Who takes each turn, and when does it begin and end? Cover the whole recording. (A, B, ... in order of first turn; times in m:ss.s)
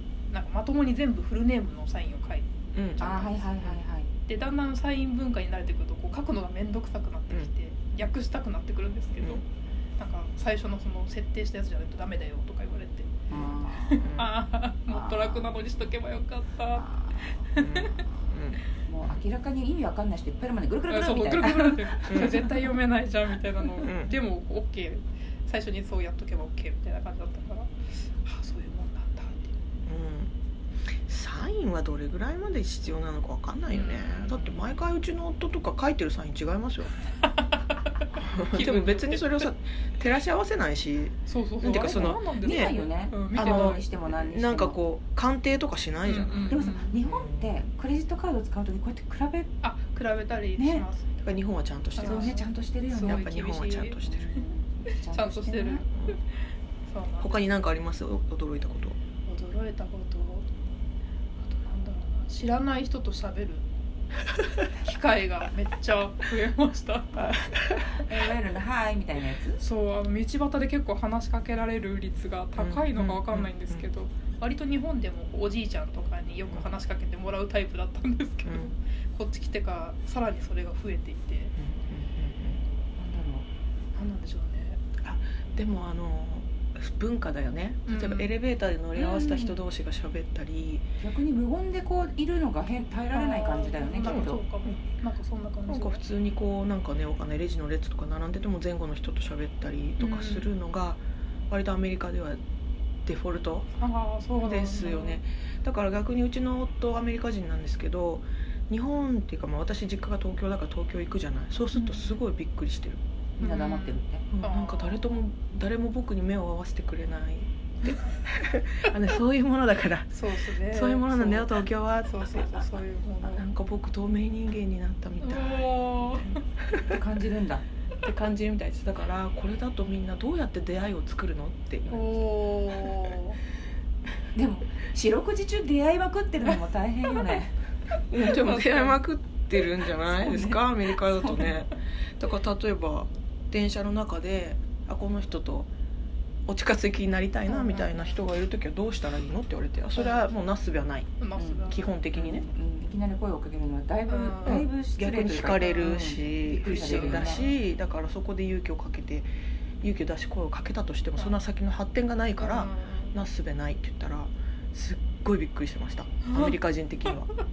0:00.3-0:09.4 A
0:02.7-0:03.1 B
0:03.0-0:04.1 C
0:10.0-0:18.0 A
0:13.3-0:14.2 C
0:14.0-0:14.3 B
0:14.9-0:15.7 C
0:16.7-0:17.4 C
0:17.6-0:18.6 B
0:18.8-0:22.7 C
0:20.9-0:29.5 A
0:22.1-0:22.4 B
0:23.8-0:24.1 B
0:29.8-0:30.3 B
0:31.1-0:36.9 B
0:33.7-0:34.5 A
0:38.2-0:42.7 B
0:38.5-0:39.5 A
0:41.3-0:43.8 A
0:41.7-0:44.8 C
0:43.3-0:47.6 B
0:46.0-0:47.0 A
0:46.5-0:49.5 C
0:49.6-0:51.3 A
0:50.6-0:50.9 C
0:51.2-0:54.1 B
0:52.0-0:56.2 A
0:52.0-0:53.3 C
0:54.0-0:55.8 C
0:56.9-0:57.3 A
0:57.2-0:59.0 B
0:59.2-1:00.5 A
1:01.4-1:03.6 A
1:04.7-1:07.3 A
1:07.2-1:07.9 B
1:08.0-1:09.6 C
1:09.6-1:21.5 A
1:12.6-1:13.8 B
1:18.4-1:18.7 B
1:21.6-1:22.6 B
1:23.0-1:23.4 C
1:23.9-1:24.8 A
1:25.0-1:30.9 B
1:27.9-1:28.3 A
1:28.9-1:29.6 C
1:31.0-1:34.4 C
1:33.1-1:36.0 A
1:34.0-1:34.4 B
1:35.7-1:42.4 B
1:40.0-1:40.5 A
1:43.0-1:43.7 B
1:43.8-1:45.2 A
1:44.4-1:53.0 B
1:51.7-1:52.1 A
1:53.4-1:54.2 C
1:53.4-1:55.2 A
1:54.3-2:00.1 B
2:00.1-2:03.5 A
2:00.6-2:02.6 B
2:03.2-2:06.3 B
2:05.2-2:06.4 A
2:06.9-2:07.6 C
2:08.0-2:12.0 B
2:11.9-2:13.4 A
2:14.3-2:17.6 C
2:18.1-2:25.7 B
2:18.2-2:19.0 A
2:20.0-2:21.6 C
2:26.5-2:31.1 B
2:27.5-2:28.2 A
2:30.0-2:30.3 A
2:31.2-2:32.0 A
2:31.4-2:31.6 C
2:31.7-2:32.4 B
2:32.1-2:37.4 C
2:34.1-2:34.7 A
2:34.4-2:39.3 B
2:35.5-2:37.6 A
2:39.8-2:47.3 B
2:41.2-2:41.4 A
2:42.4-2:43.2 A
2:46.2-2:47.2 A